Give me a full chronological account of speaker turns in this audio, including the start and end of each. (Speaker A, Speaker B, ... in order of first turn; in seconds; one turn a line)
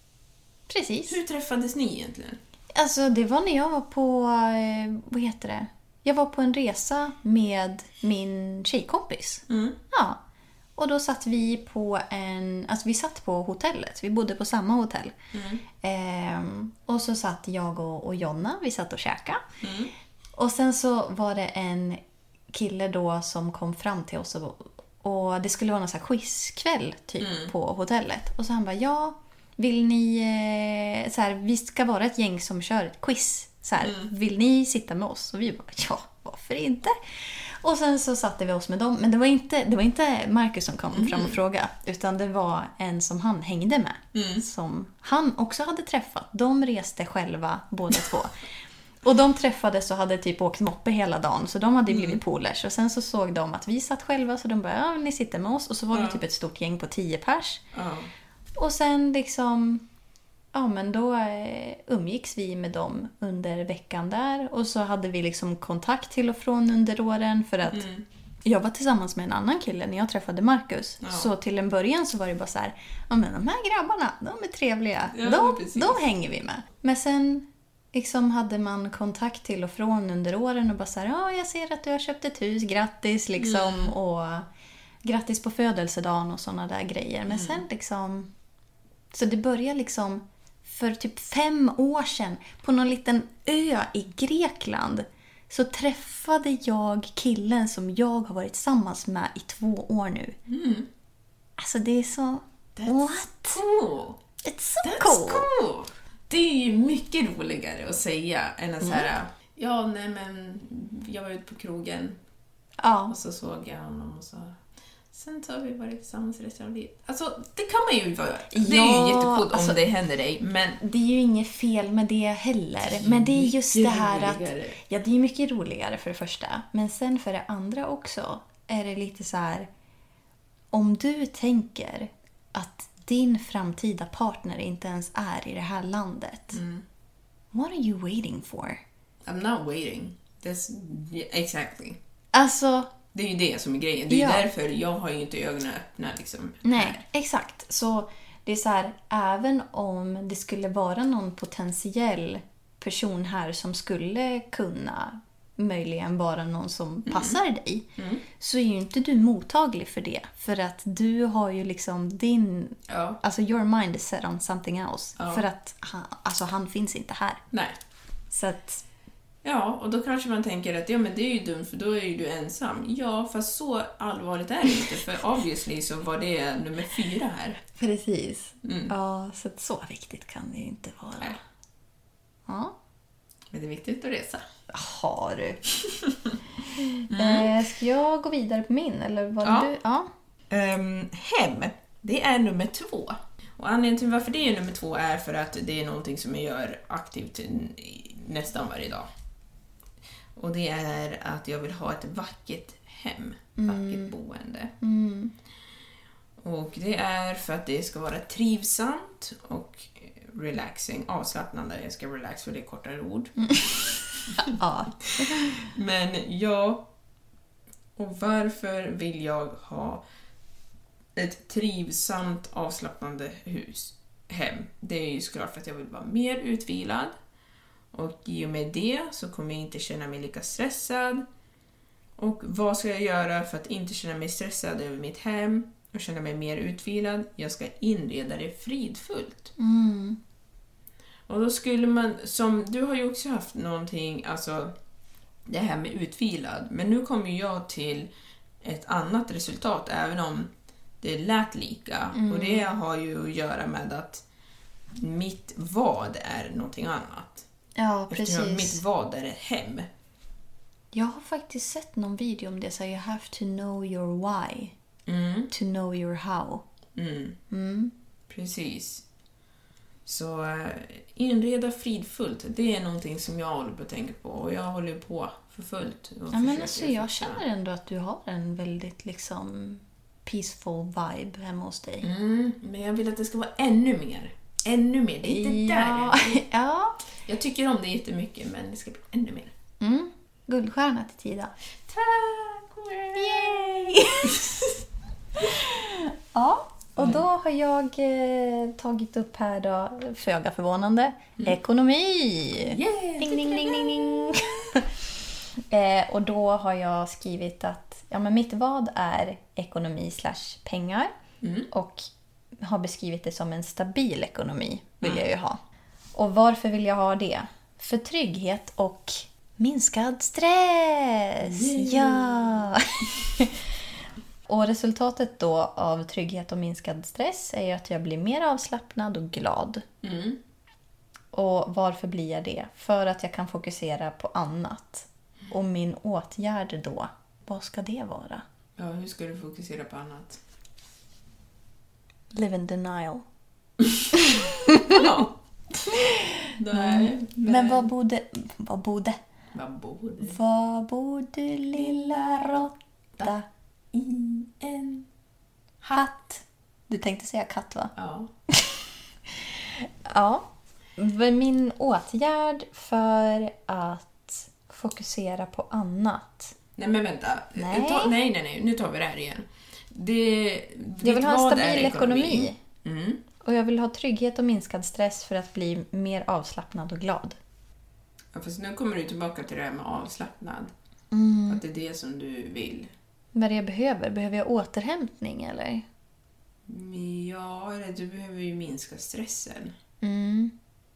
Speaker A: 0.7-1.2
Speaker B: 1.1-2.4
Speaker A: 2.7-10.2
Speaker B: 9.5-9.8
Speaker A: 10.8-15.1
Speaker B: 15.3-15.6
Speaker A: 15.8-19.4
Speaker B: 19.6-19.9
Speaker A: 20.4-22.0
Speaker A: 22.5-48.4
Speaker B: 27.2-27.5
Speaker B: 33.8-34.1
Speaker B: 40.9-41.4
Speaker B: 44.1-44.4
Speaker A: 49.0-57.6
Speaker B: 51.9-52.2
Speaker B: 55.9-56.2
Speaker B: 57.7-58.1
Speaker A: 58.6-59.8
Speaker A: 60.5-67.8
Speaker B: 67.7-68.0
Speaker A: 68.4-84.5
Speaker B: 71.0-71.3
Speaker B: 75.1-76.0
Speaker B: 83.4-83.9
Speaker A: 85.0-88.3
Speaker B: 87.3-87.6
Speaker A: 89.1-100.3
Speaker B: 100.5-100.9
Speaker A: 101.6-103.6
Speaker B: 102.8-104.2
Speaker A: 104.4-105.5
Speaker B: 104.8-112.2
Speaker A: 108.8-109.1
Speaker A: 112.8-113.1
Speaker B: 113.1-114.6
Speaker B: 115.1-120.8
Speaker A: 118.5-119.8
Speaker A: 120.8-129.7
Speaker B: 122.8-124.8
Speaker A: 130.7-136.6
Speaker B: 136.5-136.8
Speaker A: 137.5-138.8
Speaker B: 139.2-142.0
Speaker A: 142.3-142.9
Speaker B: 143.1-147.0
Speaker A: 144.1-144.4
Speaker A: 146.6-167.4
Speaker B: 157.1-157.4
Speaker B: 158.0-158.2
Speaker B: 162.9-163.2
Speaker B: 165.2-165.4
Speaker B: 167.5-167.8
Speaker A: 168.3-168.8
Speaker B: 169.4-177.6
Speaker A: 177.8-181.4
Speaker B: 178.6-178.9
Speaker A: 182.5-182.7
Speaker B: 183.5-184.4
Speaker A: 184.7-185.6
Speaker A: 186.8-190.1
Speaker B: 187.1-187.6
Speaker B: 189.4-189.7
Speaker B: 190.5-199.1
Speaker B: 200.3-204.7
Speaker A: 203.6-204.1
Speaker A: 204.8-205.3
Speaker B: 206.4-213.7
Speaker A: 214.3-215.5
Speaker B: 215.2-216.9
Speaker B: 218.0-220.0
Speaker B: 221.1-227.1
Speaker B: 227.9-231.2
Speaker B: 232.2-239.5
Speaker A: 239.6-240.2
Speaker B: 241.3-244.7
Speaker B: 245.5-248.1
Speaker B: 248.6-250.5
Speaker B: 251.0-254.2
Speaker A: 252.1-252.7
Speaker B: 254.9-257.4
Speaker A: 257.8-258.8
Speaker B: 258.1-259.9
Speaker A: 260.9-264.7
Speaker B: 265.1-265.5
Speaker A: 265.5-266.6
Speaker B: 266.9-267.4
Speaker A: 267.5-267.9
Speaker B: 268.3-269.0
Speaker B: 270.1-277.4
Speaker A: 276.3-282.1
Speaker B: 282.0-286.4
Speaker A: 285.2-287.0
Speaker B: 287.2-289.5
Speaker A: 289.8-291.5
Speaker B: 291.9-294.7
Speaker A: 293.1-294.5
Speaker A: 295.4-304.9
Speaker B: 297.0-297.2
Speaker B: 302.6-304.4
Speaker A: 305.7-311.1
Speaker B: 311.4-311.7
Speaker A: 311.7-312.1
Speaker A: 312.6-315.6
Speaker A: 316.1-323.6
Speaker B: 321.4-322.7
Speaker A: 324.5-329.8
Speaker B: 330.0-330.4
Speaker A: 331.3-338.4
Speaker B: 338.8-340.4
Speaker A: 342.3-343.2
Speaker A: 344.1-345.0
Speaker B: 344.9-345.8
Speaker A: 345.9-349.2
Speaker B: 346.6-347.9
Speaker B: 349.5-350.4
Speaker A: 350.2-353.4
Speaker B: 351.9-352.2
Speaker A: 354.0-354.5
Speaker B: 354.6-355.0
Speaker A: 355.9-357.9
Speaker B: 357.9-358.3
Speaker A: 358.5-358.8
Speaker A: 359.3-366.5
Speaker B: 366.8-373.2
Speaker A: 367.6-368.1
Speaker A: 371.0-372.6
Speaker A: 373.4-377.4
Speaker B: 378.3-380.7
Speaker A: 381.1-381.6
Speaker B: 381.5-382.9
Speaker A: 383.3-385.8
Speaker B: 386.7-389.7
Speaker A: 390.0-390.5